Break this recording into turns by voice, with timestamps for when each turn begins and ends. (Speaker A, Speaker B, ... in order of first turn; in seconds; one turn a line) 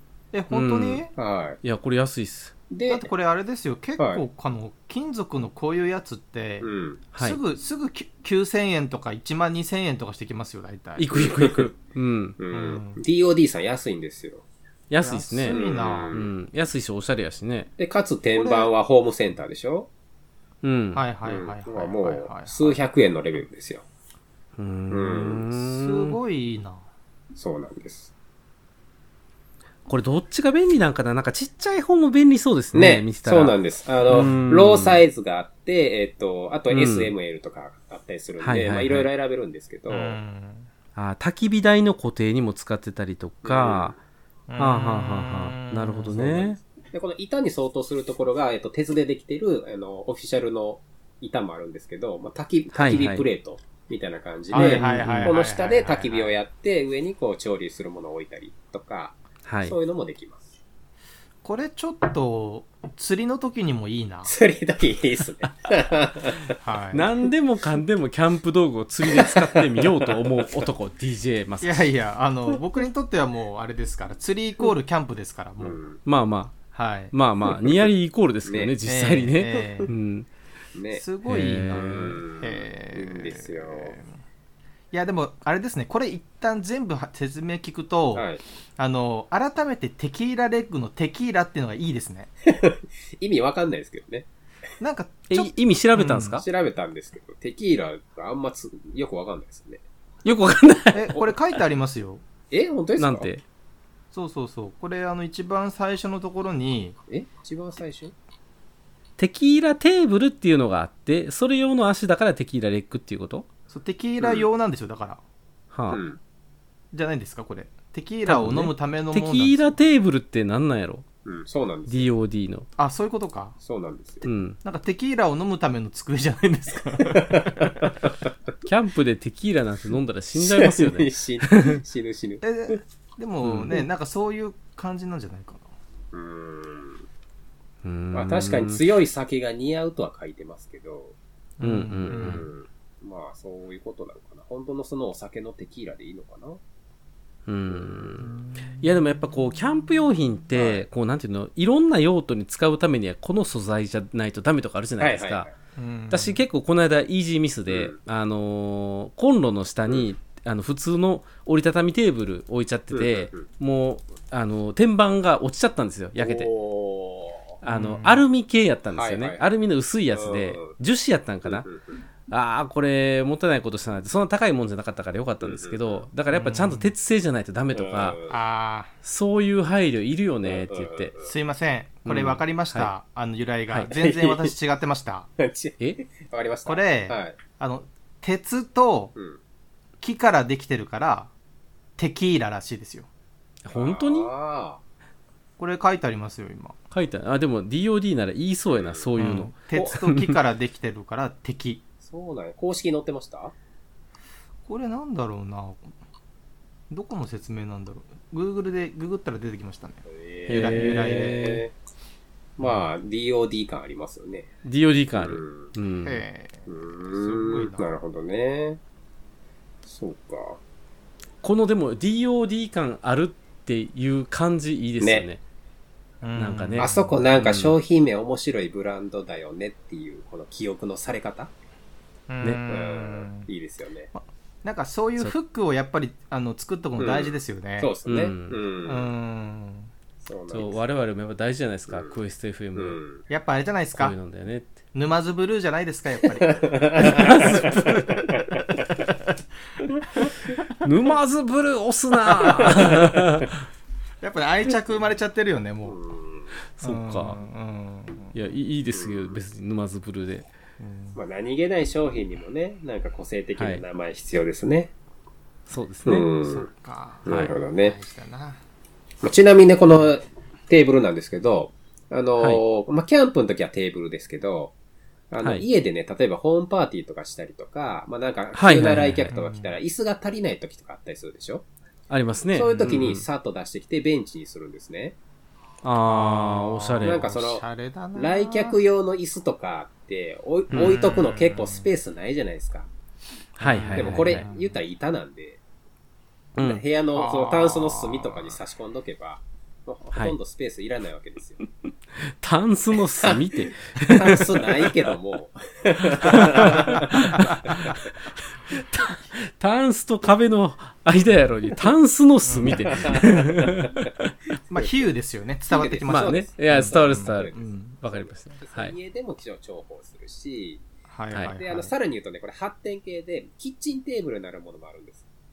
Speaker A: 0.3-1.1
Speaker B: 0.5-1.0
Speaker C: 1.2-1.6
Speaker B: 1.6-2.5
Speaker C: 2.7-3.1
Speaker A: 2.9-11.2
Speaker C: 6.6-7.0
Speaker B: 7.1-7.4
Speaker B: 11.0-12.4
Speaker C: 11.1-11.7
Speaker C: 12.4-14.4
Speaker A: 12.5-13.0
Speaker B: 14.9-17.7
Speaker A: 15.0-16.2
Speaker C: 15.5-16.3
Speaker C: 17.8-19.9
Speaker A: 18.4-18.7
Speaker B: 20.6-21.0
Speaker A: 20.9-22.8
Speaker C: 21.2-23.9
Speaker B: 24.6-26.2
Speaker C: 24.9-25.5
Speaker A: 25.7-26.9
Speaker C: 27.4-28.1
Speaker B: 29.9-33.6
Speaker C: 32.7-40.2
Speaker B: 34.1-35.0
Speaker A: 34.1-34.5
Speaker B: 36.7-37.1
Speaker B: 38.4-39.1
Speaker A: 39.9-40.7
Speaker B: 41.0-44.0
Speaker C: 43.4-44.0
Speaker A: 44.5-46.3
Speaker B: 44.6-46.6
Speaker C: 46.1-60.6
Speaker B: 52.7-53.3
Speaker A: 54.5-56.3
Speaker B: 54.5-55.4
Speaker B: 59.5-59.8
Speaker A: 61.4-64.3
Speaker C: 64.2-66.6
Speaker A: 66.6-67.1
Speaker B: 66.9-71.9
Speaker C: 69.1-70.7
Speaker A: 71.6-75.8
Speaker C: 75.6-76.0
Speaker B: 76.0-76.6
Speaker A: 76.7-77.1
Speaker B: 77.1-80.3
Speaker C: 78.5-78.8
Speaker A: 78.8-79.9
Speaker C: 80.8-81.0
Speaker A: 80.9-84.1
Speaker B: 81.3-82.2
Speaker C: 81.8-84.0
Speaker A: 84.9-88.3
Speaker C: 88.2-88.4
Speaker A: 88.8-92.3
Speaker C: 92.5-94.3
Speaker A: 94.8-96.4
Speaker B: 95.3-96.5
Speaker C: 96.3-99.8
Speaker B: 100.2-101.2
Speaker A: 100.9-102.2
Speaker C: 102.5-103.3
Speaker B: 103.0-103.4
Speaker A: 104.1-107.0
Speaker C: 107.1-108.1
Speaker B: 109.2-113.5
Speaker A: 113.7-115.2
Speaker B: 115.7-116.0
Speaker C: 115.9-116.2
Speaker A: 116.9-119.8
Speaker B: 118.3-121.1
Speaker C: 121.2-122.1
Speaker B: 121.9-122.7
Speaker A: 122.8-123.6
Speaker C: 123.6-124.3
Speaker B: 124.2-124.6
Speaker A: 124.6-127.9
Speaker C: 127.0-127.9
Speaker B: 128.7-131.8
Speaker C: 130.3-132.8
Speaker A: 132.4-135.7
Speaker B: 133.4-133.8
Speaker C: 136.1-137.1
Speaker B: 137.8-138.8
Speaker C: 138.1-141.2
Speaker A: 141.6-142.4
Speaker B: 141.6-142.4
Speaker C: 142.1-146.6
Speaker B: 147.5-155.5
Speaker C: 147.7-148.3
Speaker C: 150.5-150.8
Speaker C: 155.0-155.5
Speaker A: 155.8-156.4
Speaker B: 156.1-166.5
Speaker C: 157.7-158.0
Speaker C: 162.9-163.5
Speaker C: 166.2-167.6
Speaker B: 167.6-171.7
Speaker A: 167.7-168.2
Speaker C: 168.9-169.4
Speaker C: 170.1-170.8
Speaker C: 171.4-172.0
Speaker B: 172.3-178.2
Speaker C: 175.4-176.1
Speaker A: 176.3-176.9
Speaker C: 177.7-178.4
Speaker A: 178.3-178.9
Speaker B: 179.0-181.1
Speaker C: 180.4-181.3
Speaker A: 181.2-185.3
Speaker B: 182.1-182.9
Speaker C: 183.9-184.5
Speaker C: 185.4-187.4
Speaker A: 186.7-189.2
Speaker A: 190.0-191.3
Speaker A: 192.0-193.1
Speaker B: 193.6-194.3
Speaker C: 193.7-194.8
Speaker A: 195.6-196.8
Speaker B: 196.9-200.4
Speaker C: 198.7-199.1
Speaker A: 199.2-201.8
Speaker C: 202.0-203.5
Speaker A: 204.7-205.9
Speaker A: 206.9-211.6
Speaker C: 210.1-211.7
Speaker B: 210.5-211.6
Speaker C: 212.6-214.5
Speaker A: 212.6-212.9
Speaker B: 214.6-216.2
Speaker C: 215.1-215.7
Speaker A: 216.0-217.9
Speaker C: 216.7-218.8
Speaker C: 219.9-220.6
Speaker B: 221.4-225.4
Speaker C: 225.0-225.3
Speaker A: 226.2-227.2
Speaker B: 226.3-227.8
Speaker C: 226.8-231.5
Speaker A: 232.3-233.5
Speaker C: 232.7-234.1
Speaker A: 234.1-237.9
Speaker C: 237.0-239.1
Speaker B: 238.1-238.6
Speaker A: 238.9-239.9
Speaker C: 240.2-240.8
Speaker B: 240.5-243.0
Speaker C: 241.9-242.2
Speaker C: 242.8-243.2
Speaker A: 243.3-244.2
Speaker B: 243.9-244.8
Speaker A: 244.9-248.4
Speaker C: 246.4-248.7
Speaker B: 247.0-248.1
Speaker B: 250.8-253.6
Speaker A: 252.3-253.1
Speaker A: 254.2-256.0
Speaker C: 255.9-256.6
Speaker B: 256.8-257.4
Speaker A: 256.8-258.4
Speaker B: 258.3-260.5
Speaker C: 258.9-259.4
Speaker A: 260.8-261.2
Speaker C: 261.1-264.9
Speaker B: 263.6-263.8
Speaker B: 265.7-266.3
Speaker C: 266.1-266.7
Speaker A: 266.1-268.6
Speaker C: 267.3-268.0
Speaker B: 267.3-267.5
Speaker C: 269.2-274.7
Speaker C: 275.3-281.7
Speaker B: 278.5-279.3
Speaker A: 279.3-279.7
Speaker B: 282.1-283.2
Speaker C: 282.5-285.2
Speaker B: 285.8-287.3
Speaker A: 286.0-288.8
Speaker C: 287.0-292.9
Speaker B: 290.7-291.0
Speaker A: 290.7-291.9
Speaker B: 293.6-294.4
Speaker A: 293.6-294.8
Speaker C: 293.9-295.6
Speaker B: 296.6-296.8
Speaker C: 296.6-301.6
Speaker A: 297.1-298.5
Speaker B: 302.2-305.0
Speaker C: 303.2-307.8
Speaker B: 306.1-308.0
Speaker A: 306.6-307.9
Speaker B: 308.7-314.3
Speaker A: 312.4-312.9
Speaker C: 312.8-314.1
Speaker A: 314.7-318.0
Speaker C: 314.8-315.1
Speaker C: 315.7-320.9
Speaker B: 316.1-318.9
Speaker A: 321.1-321.9
Speaker C: 321.6-325.2